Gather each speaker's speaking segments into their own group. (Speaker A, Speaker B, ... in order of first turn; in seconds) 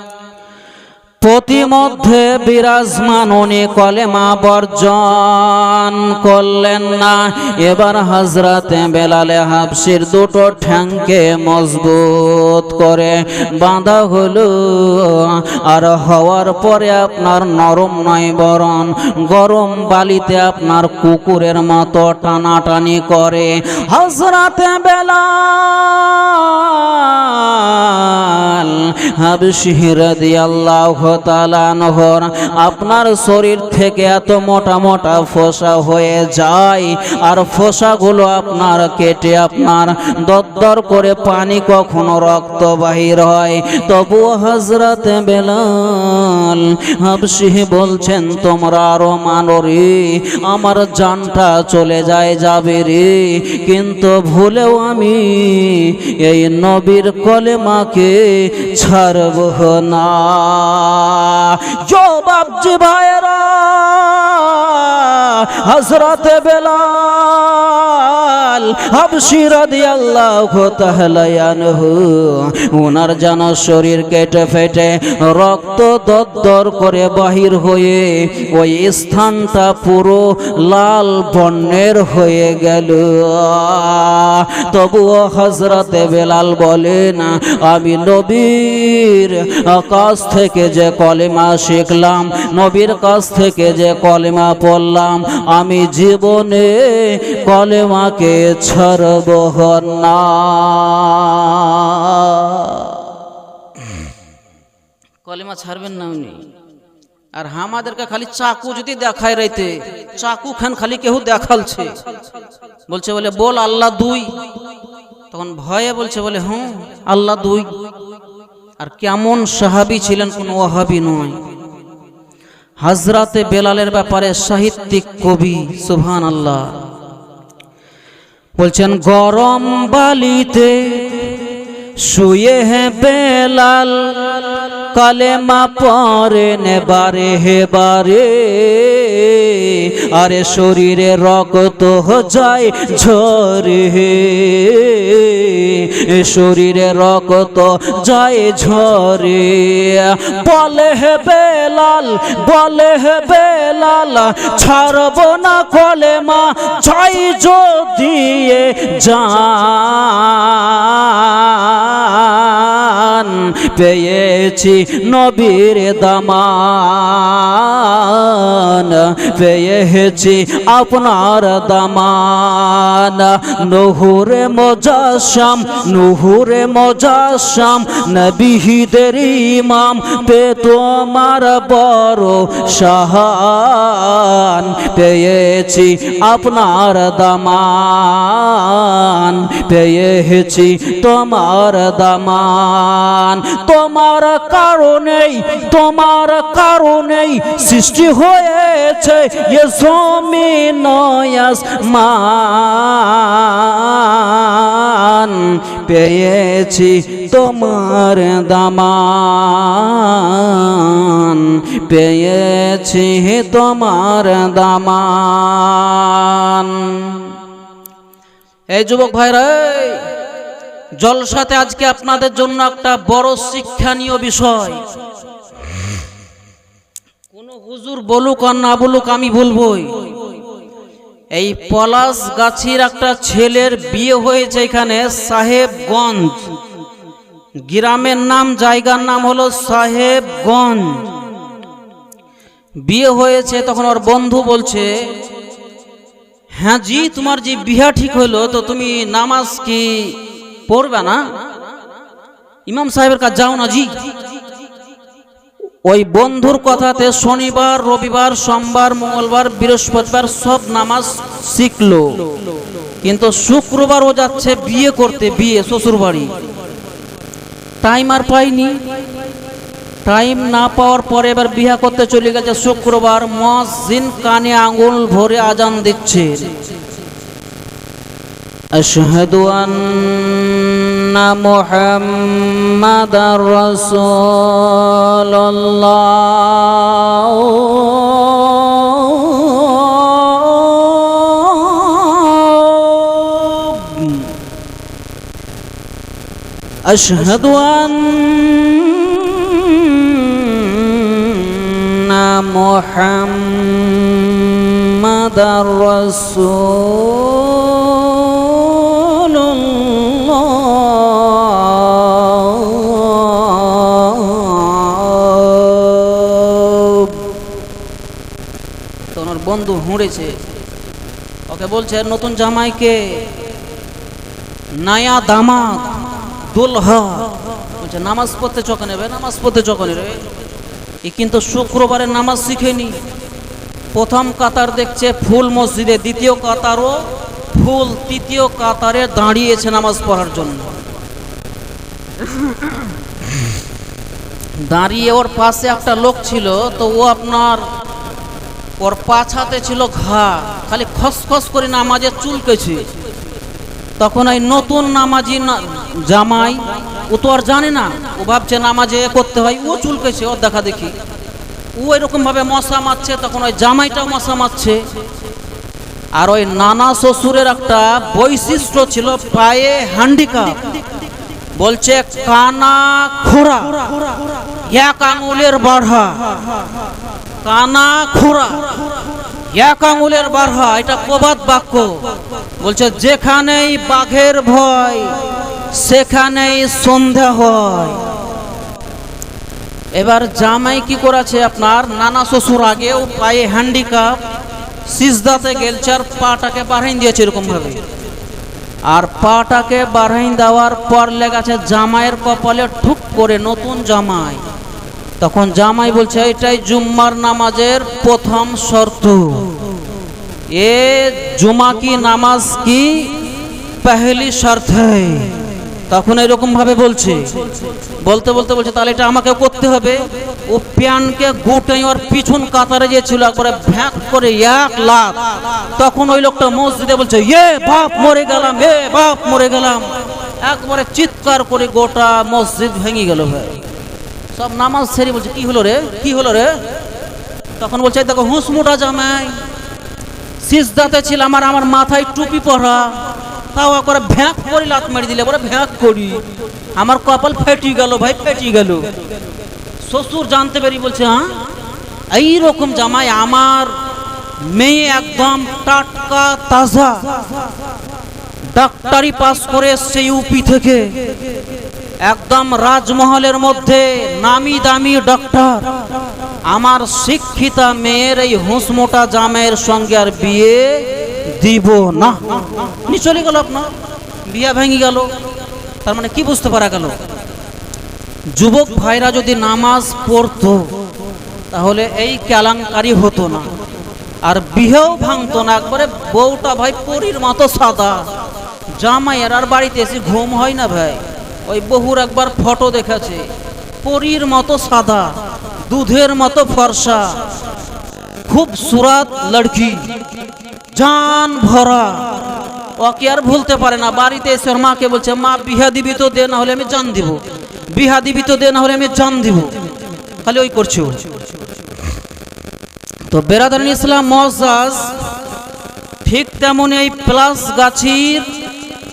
Speaker A: 1.2-103.0, 105.2-106.5, 107.3-111.9, 112.9-114.3, 115.3-117.7, 118.8-121.4, 122.8-126.8, 128.6-131.4, 132.0-217.3, 218.7-220.1, 221.0-224.8, 227.3-230.0, 231.3-236.4, 237.7-241.1, 242.8-244.9, 246.6-251.2, 252.7-253.9, 255.8-262.2, 263.0-266.3, 267.8-268.8, 270.0-276.5, 278.7-294.3, 296.8-317.2, 319.1-320.4, 321.5-323.3, 324.7-330.2, 331.0-333.0, 333.9-340.7, 344.6-347.7, 348.8-352.9, 354.0-360.9, 361.8-364.9, 366.1-370.6, 371.6-374.0, 374.7-376.4, 377.4-378.7, 379.5-382.1, 382.6-385.1, 385.7-388.1, 389.9-394.2, 394.9-397.8, 398.9-404.4, 405.2-409.5, 410.5-413.2, 413.8-417.3, 418.0-433.6, 434.3-436.6, 437.6-439.4, 440.4-446.2, 446.8-448.9, 449.8-451.4, 452.1-453.8, 454.4-457.3, 458.5-460.9, 462.0-465.8, 466.4-473.7, 474.2-475.1, 475.8-477.0, 478.3-480.7, 481.5-483.5, 484.2-488.1, 488.8-493.3, 493.8-495.1, 495.7-497.2, 498.3-499.9, 500.7-502.2, 502.8-509.6, 510.2-511.0, 513.1-514.9, 516.0-518.3